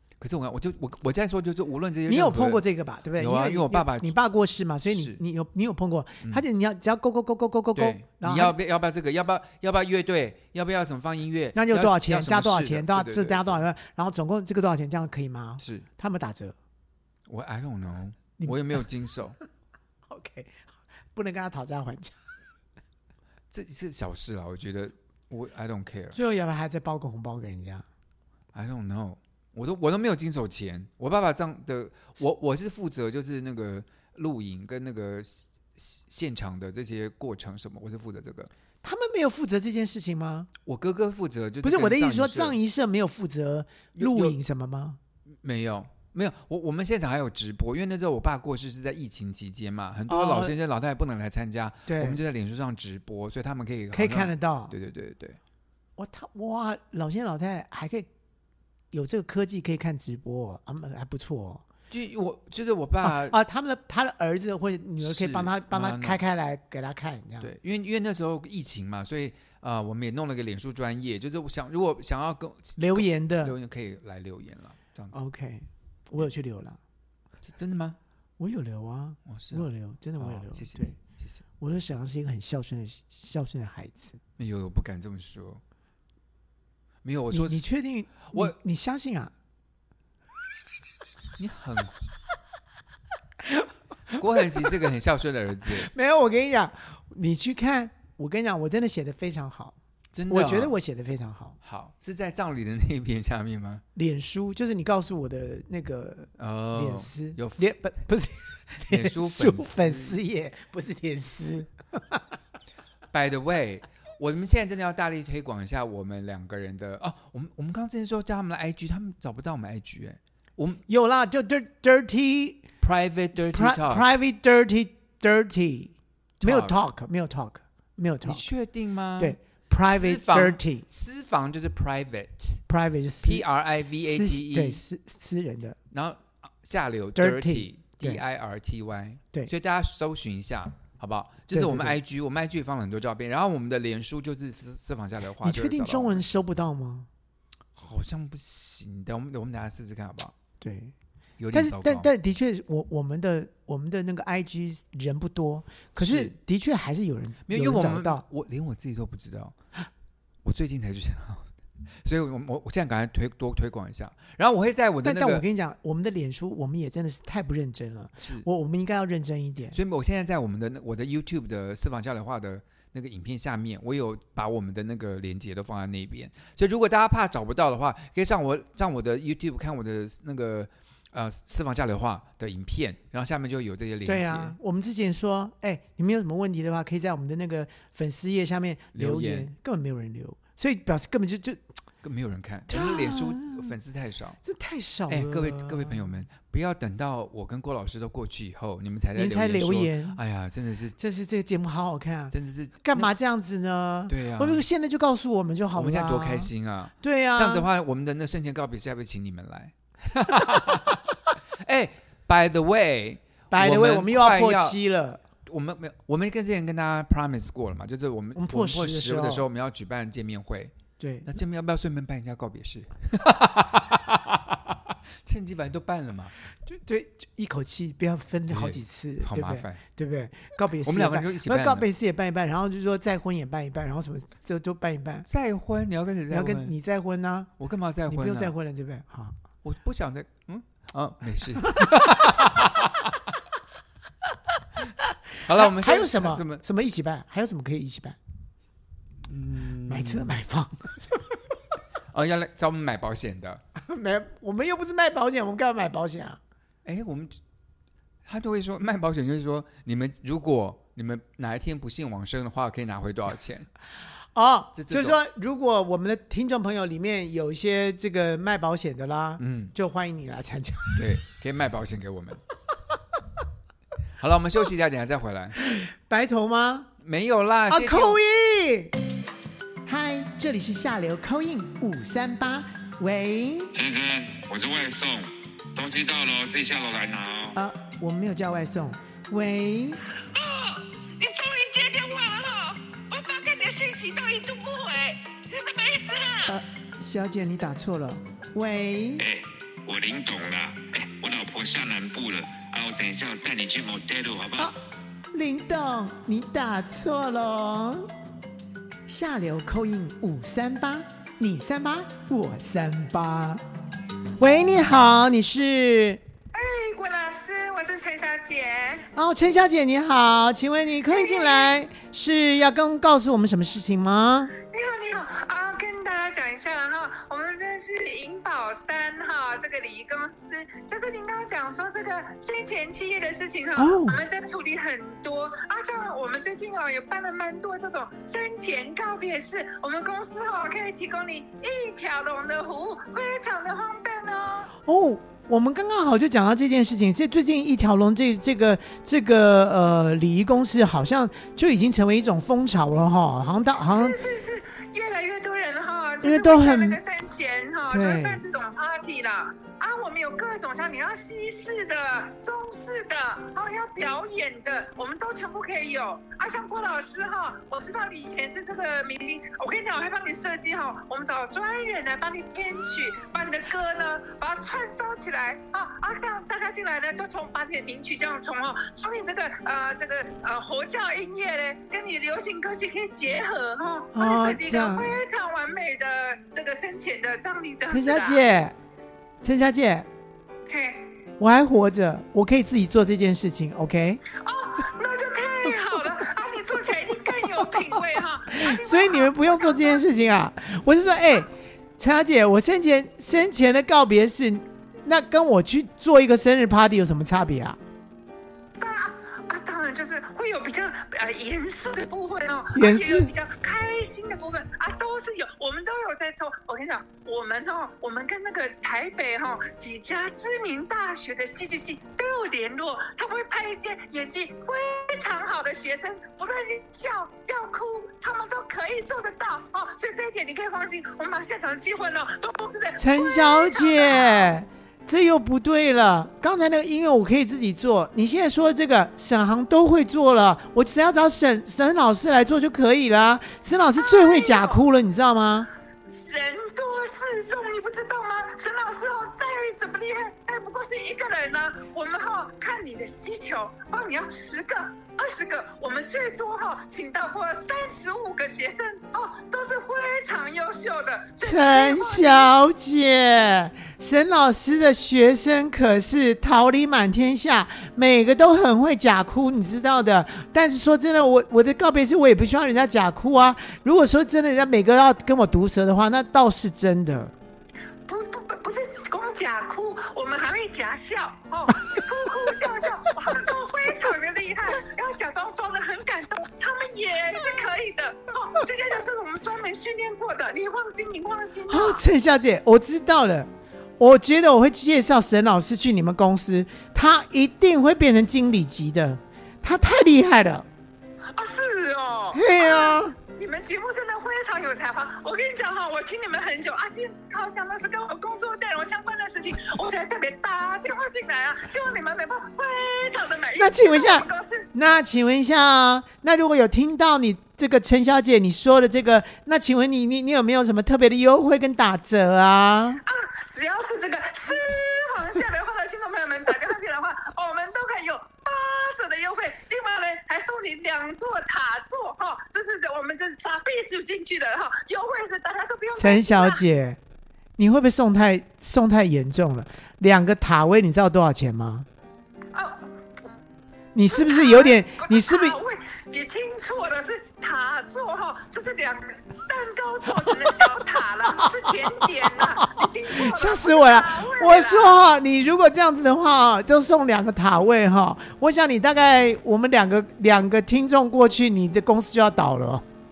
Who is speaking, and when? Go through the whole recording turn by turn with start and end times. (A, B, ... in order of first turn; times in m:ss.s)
0:00.2-0:02.6 A
0:02.1-0:08.5 B
0:03.2-0:04.1 A
0:04.9-0:05.2 A
0:07.8-0:13.6 A
0:11.5-0:16.6 B
0:15.6-0:15.8 A
0:17.3-0:19.4 A
0:20.1-0:22.1 B
0:23.5-0:26.2 A
0:26.1-0:27.8 B
0:28.5-0:38.5 A
0:38.8-0:40.5 B
0:40.6-0:42.6 A
0:41.6-0:45.0 B
0:43.9-0:44.4 A
0:45.4-0:55.4 A
0:50.1-0:50.5 B
0:51.9-0:52.2 B
0:53.9-0:54.7 B
0:56.0-0:58.1 B
0:58.9-1:01.6 B
1:01.9-1:03.4 A
1:03.0-1:07.5 B
1:05.0-1:06.2 A
1:07.4-1:15.2 A
1:12.8-1:13.5 B
1:15.1-1:16.8 B
1:17.4-1:18.0 A
1:18.4-1:21.0 B
1:19.2-1:19.7 A
1:20.2-1:21.4 A
1:21.6-1:24.2 B
1:24.4-1:25.6 A
1:27.0-1:27.7 A
1:27.3-1:29.3 B
1:31.4-1:32.0 A
1:34.2-1:35.9 A
1:35.7-1:39.8 B
1:40.1-1:40.8 A
1:40.3-1:41.6 B
1:41.6-1:43.8 A
1:43.9-1:52.2 B
1:46.4-1:47.6 A
1:48.9-1:50.2 A
1:53.1-2:00.8 A
2:00.9-2:02.6 B
2:02.8-2:04.1 A
2:03.5-2:08.4 B
2:06.4-2:06.8 A
2:08.2-2:12.6 A
2:09.2-2:10.8 B
2:12.7-2:13.4 B
2:13.2-2:14.8 A
2:14.0-2:15.8 B
2:15.9-2:26.3 A
2:17.2-2:18.2 B
2:21.5-2:22.0 B
2:25.4-2:27.1 B
2:27.8-2:30.3 A
2:30.6-2:30.9 B
2:31.4-2:32.1 A
2:31.5-2:38.2 B
2:36.0-2:36.3 A
2:37.4-2:39.5 A
2:40.4-2:41.5 A
2:42.0-2:45.4 A
2:45.0-2:49.8 B
2:48.2-2:48.4 A
2:49.7-3:04.6 A
3:04.0-3:11.6 B
3:08.9-3:09.5 A
3:12.0-3:14.4 A
3:12.7-3:13.7 B
3:14.4-3:16.2 B
3:15.1-3:21.0 A
3:19.1-3:20.2 B
3:21.0-3:27.7 B
3:22.3-3:23.1 A
3:24.1-3:24.6 A
3:25.7-3:31.0 A
3:31.6-3:34.8 A
3:33.5-3:35.2 B
3:35.4-3:40.7 A
3:38.4-3:39.4 B
3:41.0-3:41.3 B
3:41.2-3:46.3 A
3:46.6-3:55.3 B
3:48.5-3:49.8 A
3:50.8-3:51.8 A
3:55.3-3:56.7 A
3:56.3-3:57.5 B
3:57.6-3:58.5 A
3:58.1-3:59.4 B
3:59.6-4:03.3 A
4:05.4-4:06.6 A
4:05.5-4:08.2 B
4:09.2-4:10.4 A
4:09.9-4:11.4 B
4:12.1-4:13.6 A
4:13.8-4:16.4 B
4:16.8-4:17.4 A
4:18.2-4:23.7 A
4:24.3-4:31.1 B
4:24.7-4:25.2 A
4:29.4-4:29.7 A
4:31.0-4:32.4 A
4:34.2-4:35.6 A
4:35.6-4:36.9 B
4:37.0-4:38.2 A
4:37.7-4:38.9 B
4:39.8-4:43.7 B
4:43.7-4:47.6 C
4:47.5-4:50.0 B
4:50.3-4:56.5 D
4:56.4-4:59.2 B
4:59.2-5:04.7 C
5:05.3-5:08.1 B
5:09.1-5:13.6 B
5:14.4-5:16.2 B
5:16.5-5:19.1 D
5:19.1-5:24.5 B
5:21.1-5:21.7 D
5:24.6-5:44.7 D
5:33.8-5:34.2 B
5:44.8-5:54.2 B
5:53.9-6:28.4 D
5:56.2-5:57.0 B
5:57.9-5:58.4 B
6:24.1-6:25.1 B
6:27.9-6:28.7 B
6:29.4-6:30.1 B
6:30.7-6:31.1 D
6:31.4-6:34.2 B
6:34.3-6:40.0 D
6:37.6-6:38.0 B
6:38.5-6:47.8 B
6:48.8-7:14.5 D
6:52.7-6:53.3 B
7:13.0-7:25.7 B
7:24.0-7:24.8 D
7:26.2-7:42.5 D
7:41.4-7:57.3 B
7:58.1-8:12.0 D
8:11.7-8:13.5 B
8:14.0-8:20.6 B
8:21.3-8:34.6 D
8:22.3-8:23.2 B
8:33.6-8:43.0 B
8:43.0-8:56.6 D
8:56.0-8:57.0 B
8:57.6-9:01.9 B
9:02.5-9:03.3 D
9:03.9-9:05.6 B
9:04.1-9:15.0 D
9:10.2-9:10.7 B
9:11.4-9:22.8 B